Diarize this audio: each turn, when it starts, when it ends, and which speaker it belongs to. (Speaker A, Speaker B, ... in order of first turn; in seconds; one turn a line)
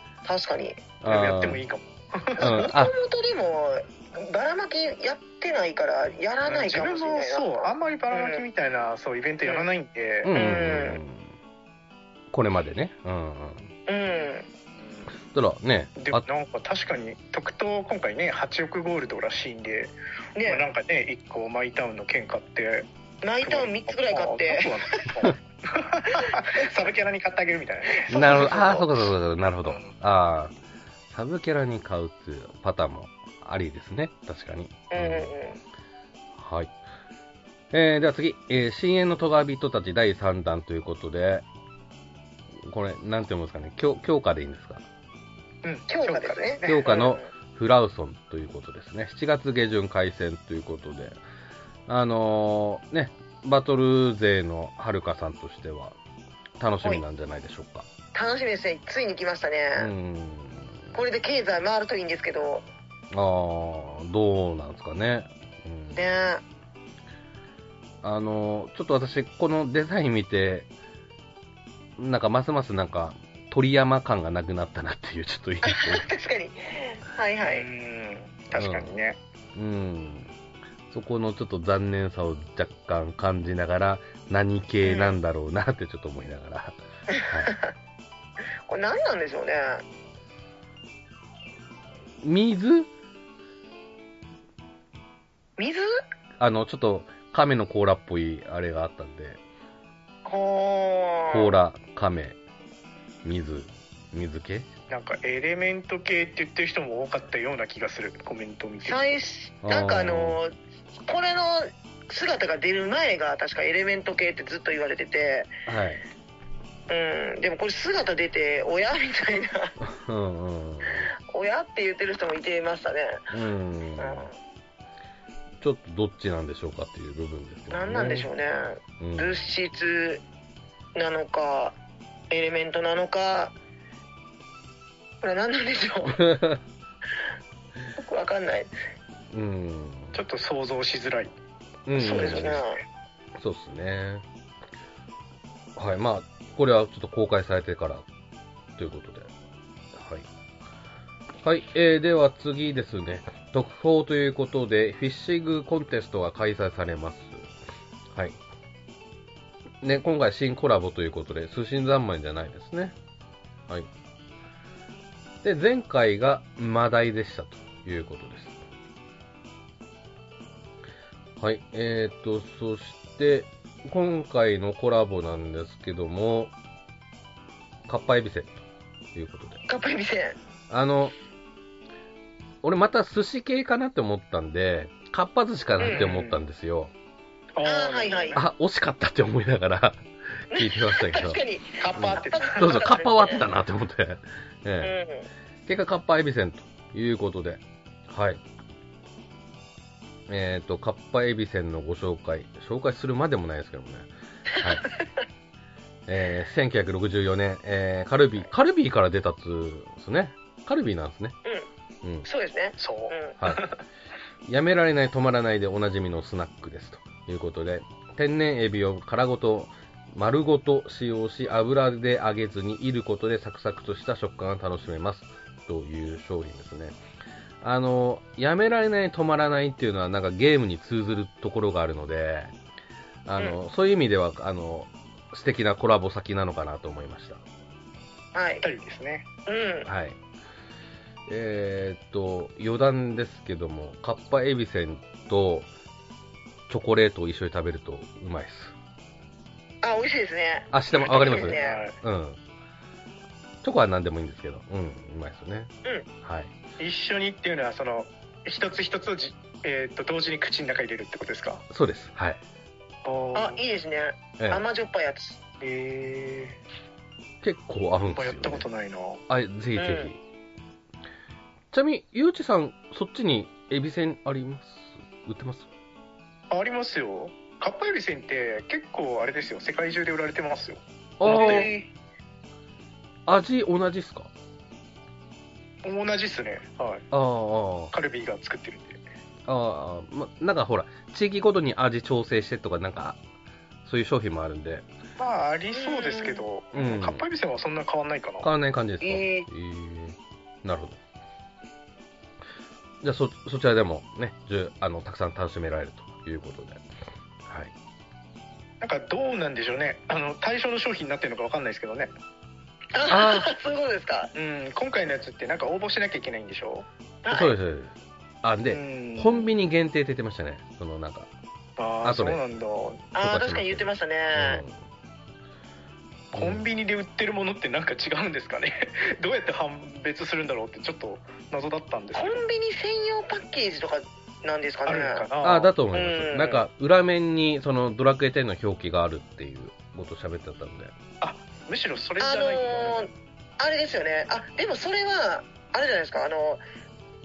Speaker A: 0.2-0.8
Speaker B: 1.0-1.6
Speaker C: 1.1-2.7
Speaker A: 2.4-8.4
Speaker B: 2.4-2.9
Speaker C: 6.5-10.3
Speaker B: 10.2-11.3
Speaker A: 10.3-11.0
Speaker B: 12.3-13.7
Speaker A: 13.9-14.5
Speaker C: 14.8-15.1
Speaker B: 15.3-16.2
Speaker C: 16.0-22.9
Speaker A: 20.4-20.6
Speaker A: 23.2-25.2
Speaker C: 23.4-28.8
Speaker A: 26.1-26.7
Speaker A: 28.1-28.9
Speaker B: 28.1-30.6
Speaker C: 29.6-29.9
Speaker B: 31.1-35.3
Speaker A: 34.9-35.6
Speaker B: 36.4-36.7
Speaker B: 37.7-41.4
Speaker B: 42.6-44.9
Speaker C: 45.6-46.9
Speaker A: 45.9-47.3
Speaker B: 46.6-51.2
Speaker B: 51.9-56.0
Speaker B: 56.6-57.9
Speaker A: 58.1-59.9
Speaker B: 59.8-60.9
Speaker A: 60.9-62.7
Speaker B: 63.1-66.1
Speaker A: 66.0-66.4
Speaker B: 68.0-70.7
Speaker B: 72.0-76.0
Speaker A: 75.7-77.7
Speaker C: 77.4-79.2
Speaker B: 78.5-78.9
Speaker B: 79.5-80.3
Speaker B: 80.9-87.5
Speaker A: 84.8-85.2
Speaker A: 87.1-87.7
Speaker A: 88.7-89.8
Speaker B: 92.2-92.9
Speaker A: 95.6-95.9
Speaker B: 96.4-99.4
Speaker A: 100.2-101.5
Speaker B: 101.3-102.4
Speaker B: 103.2-104.7
Speaker C: 104.9-109.1
Speaker A: 108.8-115.5
Speaker B: 109.6-110.4
Speaker B: 115.7-116.0
Speaker A: 116.9-119.8
Speaker B: 119.8-121.1
Speaker A: 121.3-123.3
Speaker B: 123.3-124.3
Speaker A: 124.0-124.3
Speaker B: 125.6-128.3
Speaker A: 127.7-130.2
Speaker B: 129.0-129.5
Speaker A: 131.0-131.8
Speaker A: 132.3-133.6
Speaker A: 135.2-136.2
Speaker B: 136.1-136.6
Speaker A: 138.0-138.7
Speaker B: 139.3-140.2
Speaker C: 140.1-141.3
Speaker B: 141.9-142.7
Speaker A: 142.0-142.8
Speaker C: 142.2-142.5
Speaker B: 143.4-144.2
Speaker B: 145.8-148.1
Speaker B: 148.8-149.3
Speaker B: 149.9-150.3
Speaker B: 151.4-157.5
Speaker B: 158.1-158.4
Speaker B: 159.8-163.0
Speaker B: 165.4-168.6
Speaker B: 171.4-176.5
Speaker B: 177.9-179.6
Speaker A: 179.7-180.4
Speaker B: 180.7-181.2
Speaker B: 182.6-186.9
Speaker A: 185.8-186.1
Speaker C: 185.8-186.4
Speaker C: 187.6-188.4
Speaker A: 187.6-188.4
Speaker B: 188.3-191.4
Speaker A: 190.5-193.4
Speaker C: 191.8-193.0
Speaker B: 192.0-194.9
Speaker A: 194.8-195.3
Speaker B: 195.7-198.4
Speaker B: 200.3-204.1
Speaker B: 204.6-204.8
Speaker B: 206.1-211.4
Speaker A: 212.2-213.3
Speaker C: 212.8-213.8
Speaker B: 214.5-227.0
Speaker B: 227.6-232.5
Speaker B: 233.3-237.4
Speaker A: 238.3-238.6
Speaker C: 238.6-239.3
Speaker A: 239.5-239.9
Speaker B: 239.9-240.2
Speaker B: 241.3-245.7
Speaker B: 246.7-248.8
Speaker A: 249.8-251.8
Speaker B: 250.7-252.4
Speaker C: 251.0-252.0
Speaker B: 253.6-255.7
Speaker B: 256.2-256.5
Speaker C: 256.8-261.6
Speaker B: 261.7-262.4
Speaker C: 263.0-263.6
Speaker A: 263.3-265.4
Speaker C: 265.6-266.6
Speaker B: 267.4-268.7
Speaker C: 268.1-269.2
Speaker B: 269.3-270.2
Speaker A: 269.8-270.1
Speaker B: 271.7-275.7
Speaker C: 276.5-281.8
Speaker B: 281.2-281.7
Speaker A: 281.3-281.9
Speaker B: 283.3-284.3
Speaker C: 285.8-287.1
Speaker B: 287.1-287.9
Speaker C: 287.9-289.0
Speaker B: 289.5-293.2
Speaker B: 293.9-294.9
Speaker C: 295.2-298.5
Speaker A: 295.7-296.5
Speaker B: 296.7-297.2
Speaker B: 298.4-301.0
Speaker A: 299.0-299.5
Speaker B: 303.0-306.8
Speaker B: 307.5-307.7
Speaker C: 308.8-312.1
Speaker A: 312.9-314.3
Speaker B: 313.1-313.5
Speaker C: 314.4-316.9
Speaker A: 317.2-317.5
Speaker B: 317.3-321.3
Speaker C: 318.7-319.5
Speaker C: 321.8-323.1
Speaker B: 322.0-322.4
Speaker A: 323.1-324.6
Speaker B: 323.2-324.8
Speaker C: 326.3-332.4
Speaker B: 326.3-326.6
Speaker A: 332.1-335.3
Speaker C: 334.9-335.7
Speaker B: 335.4-340.9
Speaker A: 335.9-336.6
Speaker C: 341.2-343.1
Speaker A: 342.2-346.6